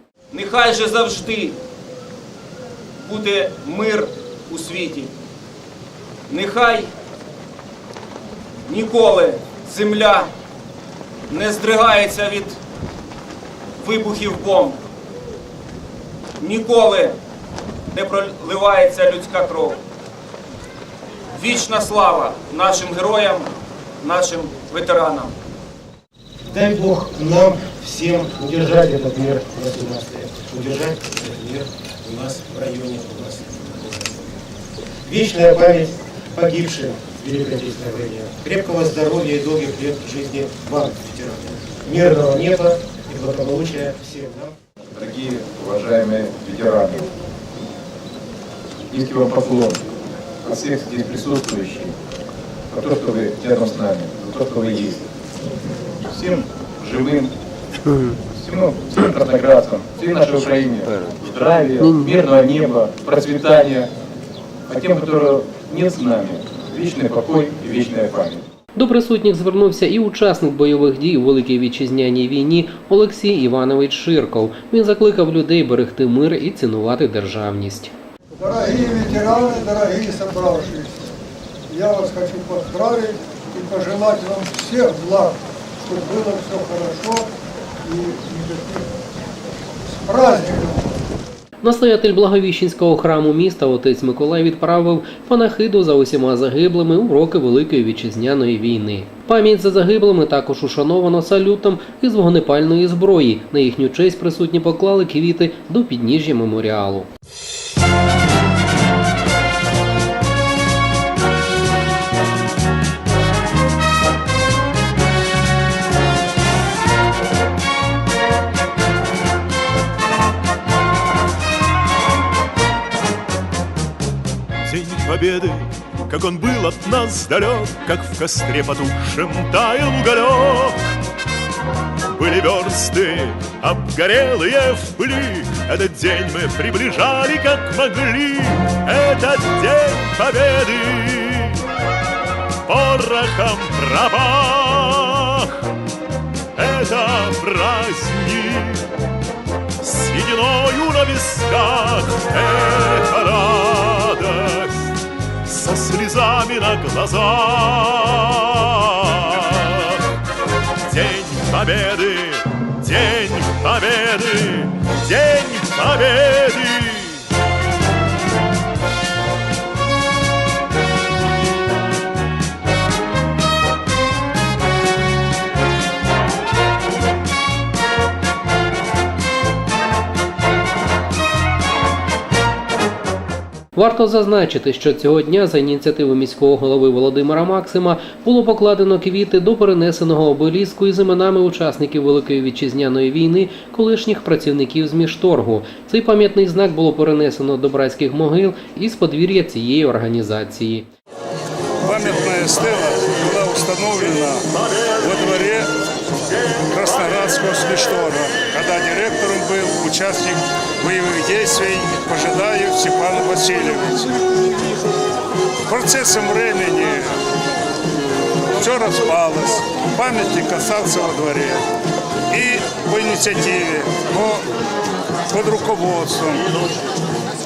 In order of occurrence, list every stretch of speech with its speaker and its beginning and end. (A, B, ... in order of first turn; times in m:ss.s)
0:00.3-0:01.6 A
0:03.0-0:05.1 A
0:06.3-0:06.9 A
0:08.7-0:10.3 A
0:11.3-0:12.6 A
0:13.8-0:14.8 A
0:16.4-0:17.2 A
0:17.9-0:19.8 A
0:21.3-0:23.5 A
0:24.0-0:25.3 A
0:26.5-0:34.2 B
0:35.0-0:44.5 B
0:44.8-0:47.1 C
0:48.9-0:49.8 C
0:50.4-0:51.9 C
0:52.7-0:55.0 C
0:56.0-0:57.3 C
0:58.2-1:03.9 C
1:01.8-1:02.1 D
1:04.7-1:08.4 C
1:08.8-1:17.9 D
1:18.3-1:21.1 E
1:21.7-1:27.3 E
1:27.8-1:28.9 E
1:29.9-1:31.0 E
1:31.6-1:47.1 D
2:04.6-2:10.8 F
2:12.1-2:21.6 F
2:22.6-2:25.7 F
2:26.6-2:28.9 F
2:29.8-2:40.0 F
2:40.9-2:47.2 F
3:03.7-3:20.9 D
3:21.8-3:24.4 G
3:25.0-3:25.7 G
3:26.7-3:34.1 G
3:35.7-3:37.2 G
3:38.6-3:41.6 G
3:42.3-3:44.4 G
3:45.3-3:46.5 G